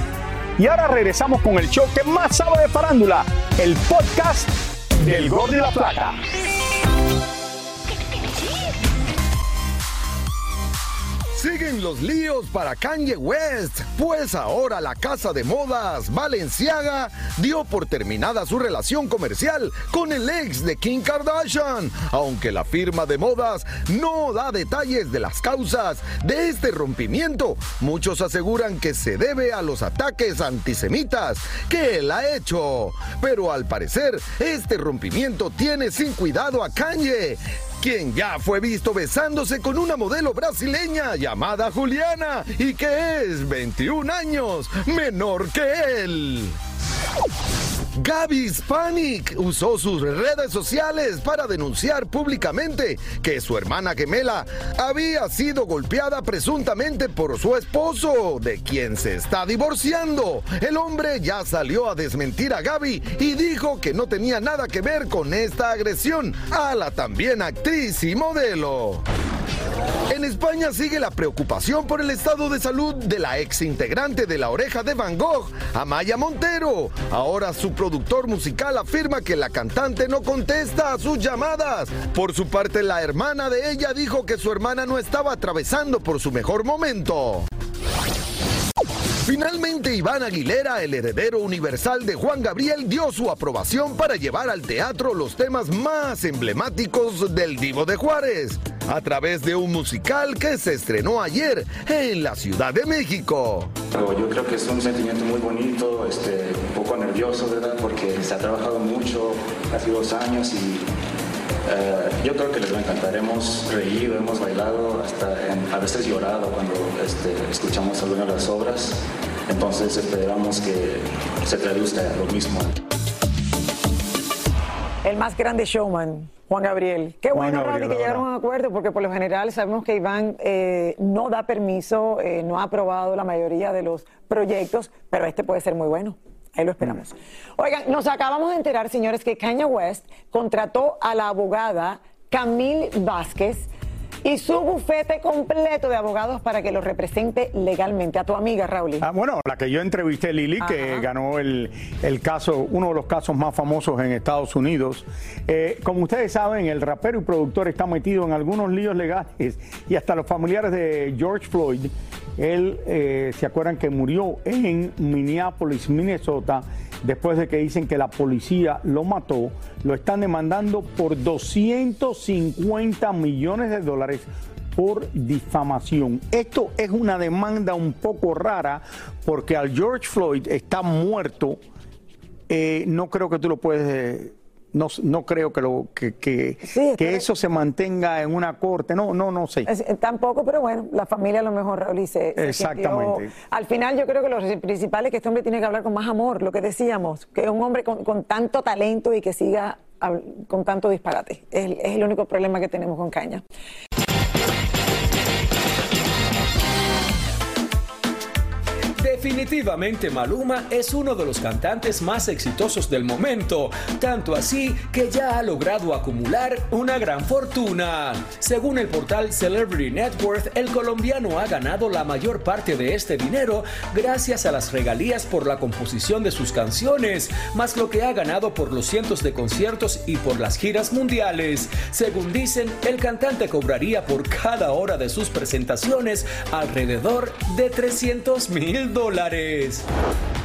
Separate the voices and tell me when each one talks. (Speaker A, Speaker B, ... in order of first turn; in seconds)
Speaker A: 0.6-6.2, 127.3-128.3, 149.0-181.6, 182.5-189.7, 192.4-193.3
Speaker B: 11.3-46.6, 48.0-69.0, 70.1-87.5, 89.3-103.8
Speaker C: 103.9-110.8, 111.7-122.8
Speaker D: 125.0-143.7, 144.2-149.1, 150.6-151.1, 186.7-187.3, 189.7-203.4
Speaker E: 209.0-239.9